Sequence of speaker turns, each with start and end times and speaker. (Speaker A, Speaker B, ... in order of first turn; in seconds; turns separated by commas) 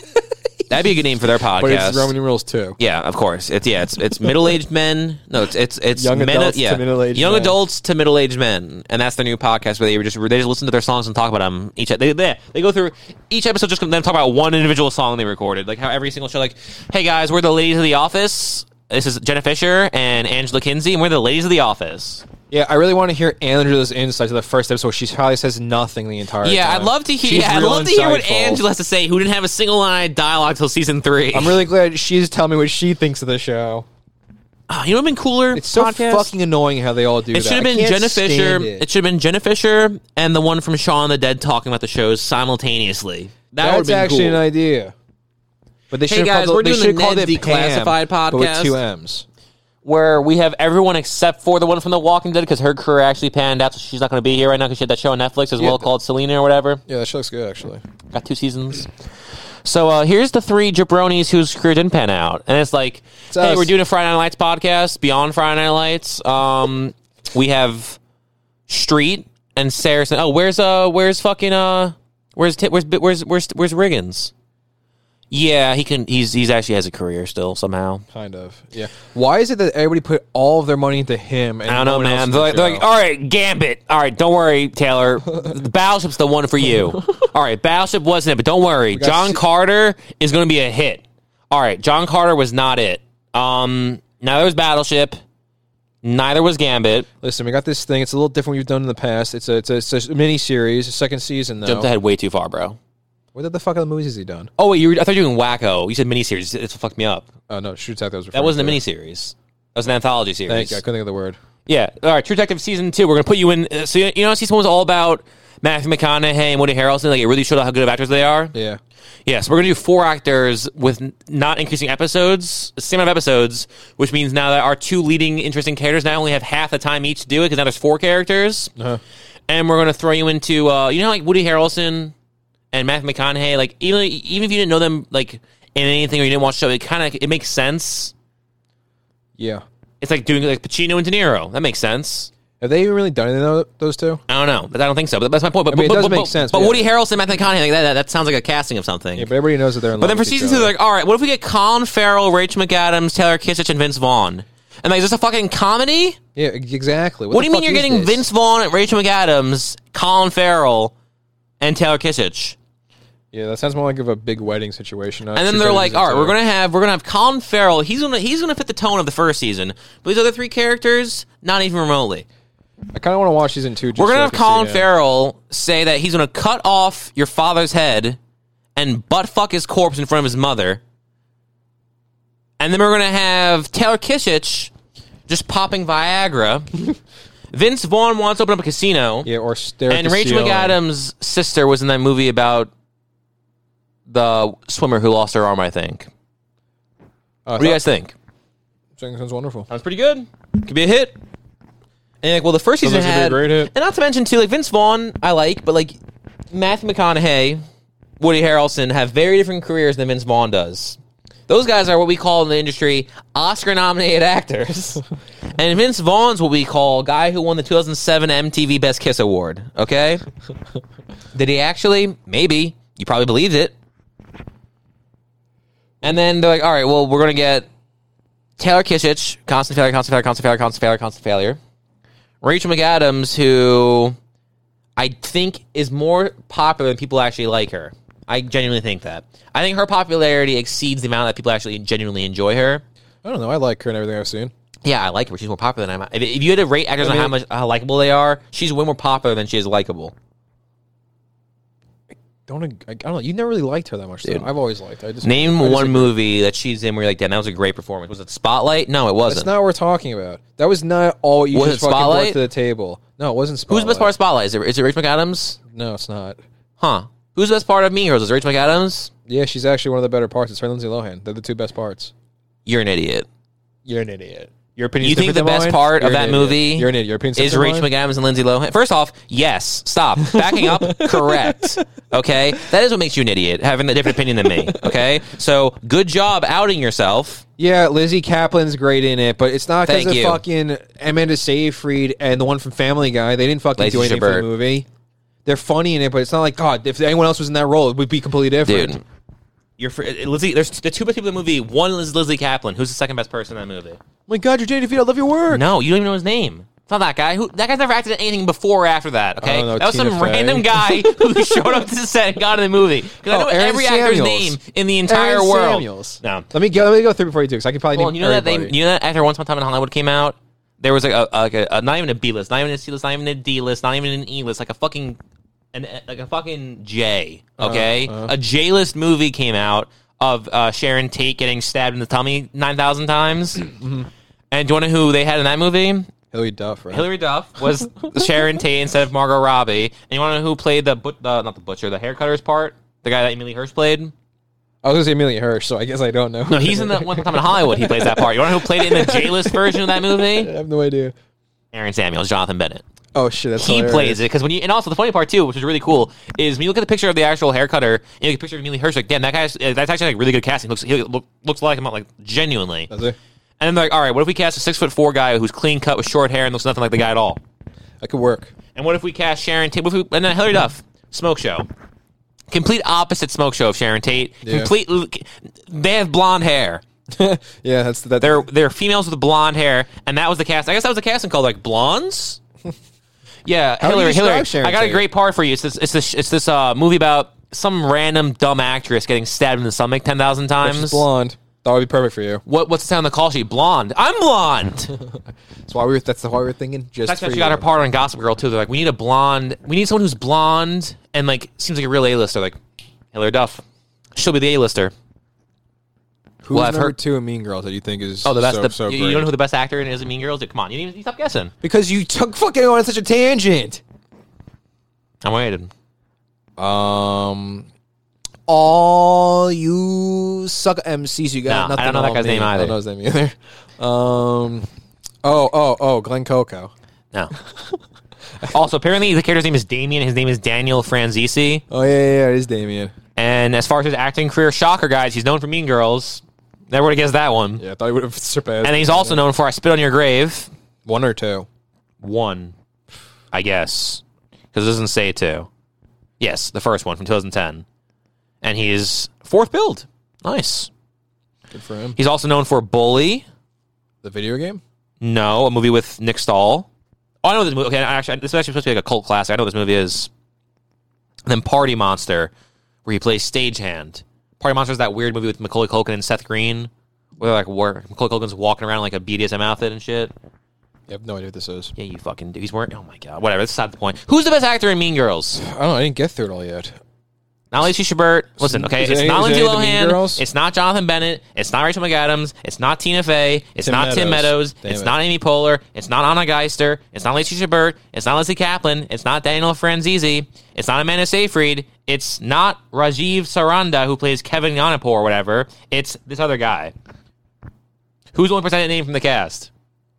Speaker A: 0.7-2.1, Speaker B: 1.5-2.8, Speaker A: 2.8-22.2, Speaker B: 5.9-7.6, Speaker B: 22.5-28.6, Speaker A: 26.4-31.6, Speaker B: 31.3-33.9, Speaker A: 34.7-36.4, Speaker B: 35.5-38.9, Speaker A: 37.3-44.4, Speaker B: 43.6-44.9, Speaker B: 45.9-49.2, Speaker A: 46.0-48.8, Speaker A: 49.8-56.8, Speaker B: 55.6-55.9, Speaker B: 56.9-57.8, Speaker A: 58.1-58.9, Speaker A: 59.6-68.0, Speaker B: 63.3-63.7, Speaker A: 68.7-74.3, Speaker A: 75.3-78.0, Speaker B: 78.1-82.8, Speaker A: 81.7-95.2, Speaker B: 88.9-89.4, Speaker A: 96.0-97.1, Speaker B: 97.2-101.9, Speaker A: 101.6-102.8, Speaker B: 103.3-104.5, Speaker A: 104.6-107.3, Speaker B: 107.5-108.8, Speaker A: 108.3-110.8, Speaker B: 110.5-111.4, Speaker A: 111.7-118.5, Speaker B: 118.5-118.8, Speaker A: 119.2-128.7, Speaker B: 128.8-129.0, Speaker A: 129.5-132.1, Speaker A: 132.7-138.1, Speaker B: 139.4-139.6, Speaker A: 140.0-142.3, Speaker B: 142.6-144.2, Speaker A: 144.3-149.3, Speaker B: 145.7-146.9, Speaker B: 149.1-150.7, Speaker A: 150.0-156.2, Speaker B: 156.3-158.2, Speaker A: 157.3-160.9, Speaker A: 161.6-162.6, Speaker B: 163.3-166.3, Speaker A: 165.3-172.2, Speaker B: 172.9-174.9, Speaker A: 173.9-178.2, Speaker A: 178.8-180.8, Speaker A: 182.6-184.7, Speaker A: 185.3-186.8, Speaker A: 187.5-189.3, Speaker B: 189.2-190.8, Speaker A: 189.9-192.7, Speaker A: 194.1-196.1, Speaker B: 197.4-197.8, Speaker A: 197.6-198.1, Speaker B: 199.0-199.7, Speaker A: 199.7-201.2, Speaker A: 202.2-206.0, Speaker B: 202.8-203.7, Speaker A: 206.5-207.6, Speaker A: 208.2-215.0, Speaker A: 215.5-220.2, Speaker A: 221.3-223.7, Speaker A: 226.0-227.7, Speaker A: 228.6-231.6, Speaker A: 232.4-234.2, Speaker A: 235.0-242.8, Speaker B: 243.2-244.5, Speaker A: 244.8-250.1, Speaker B: 247.0-247.3, Speaker B: 252.5-256.1, Speaker A: 255.2-259.5, Speaker B: 259.3-264.1, Speaker A: 261.5-262.4, Speaker A: 263.7-265.6, Speaker B: 265.7-266.4, Speaker A: 266.8-269.1, Speaker B: 269.3-272.1, Speaker A: 272.6-273.3, Speaker B: 273.9-277.9, Speaker A: 275.0-287.4, Speaker B: 280.3-281.8, Speaker B: 284.6-285.0, Speaker B: 287.6-294.9, Speaker A: 289.9-290.4, Speaker A: 293.8-294.5, Speaker B: 295.4-299.0, Speaker A: 298.6-299.0, Speaker A: 299.8-304.0, Speaker B: 304.3-305.7, Speaker A: 305.5-316.5, Speaker B: 309.4-311.9, Speaker B: 313.3-318.8, Speaker A: 317.9-325.2, Speaker A: 325.7-336.1, Speaker B: 327.6-328.3, Speaker B: 336.3-337.1, Speaker A: 336.9-344.1, Speaker B: 344.8-351.1, Speaker A: 346.5-350.5, Speaker A: 351.7-352.8, Speaker B: 353.1-354.2, Speaker A: 353.6-362.9, Speaker B: 362.9-363.2, Speaker A: 363.6-367.4, Speaker B: 368.0-368.5, Speaker A: 368.7-371.7, Speaker A: 372.5-376.8, Speaker B: 374.4-374.7, Speaker B: 377.1-378.5, Speaker A: 378.2-382.4, Speaker A: 383.4-391.0, Speaker B: 383.8-385.1, Speaker B: 390.6-392.4, Speaker A: 392.4-394.9, Speaker B: 395.6-397.7, Speaker A: 397.1-402.6, Speaker A: 403.1-403.6, Speaker A: 404.1-404.9, Speaker B: 406.4-409.3, Speaker A: 406.5-406.9, Speaker A: 408.2-411.5, Speaker B: 411.6-413.8, Speaker A: 415.2-415.7, Speaker B: 416.6-417.7, Speaker B: 418.5-424.7, Speaker A: 421.5-422.8, Speaker B: 425.2-426.7, Speaker A: 428.4-431.6, Speaker B: 431.7-432.9, Speaker A: 433.1-437.6, Speaker B: 437.6-439.3, Speaker A: 438.6-440.5, Speaker B: 440.8-441.5, Speaker A: 442.0-442.5, Speaker A: 443.3-445.5, Speaker A: 446.2-447.6, Speaker A: 448.4-450.7, Speaker B: 451.5-452.0, Speaker A: 452.0-453.2, Speaker B: 454.0-454.6, Speaker A: 455.0-456.7, Speaker A: 457.2-460.1, Speaker A: 461.3-462.3, Speaker A: 462.8-470.1, Speaker B: 470.9-471.7, Speaker A: 471.8-475.4, Speaker B: 475.4-476.7, Speaker A: 477.5-496.7, Speaker B: 478.4-480.2, Speaker B: 483.6-484.9, Speaker A: 498.1-499.5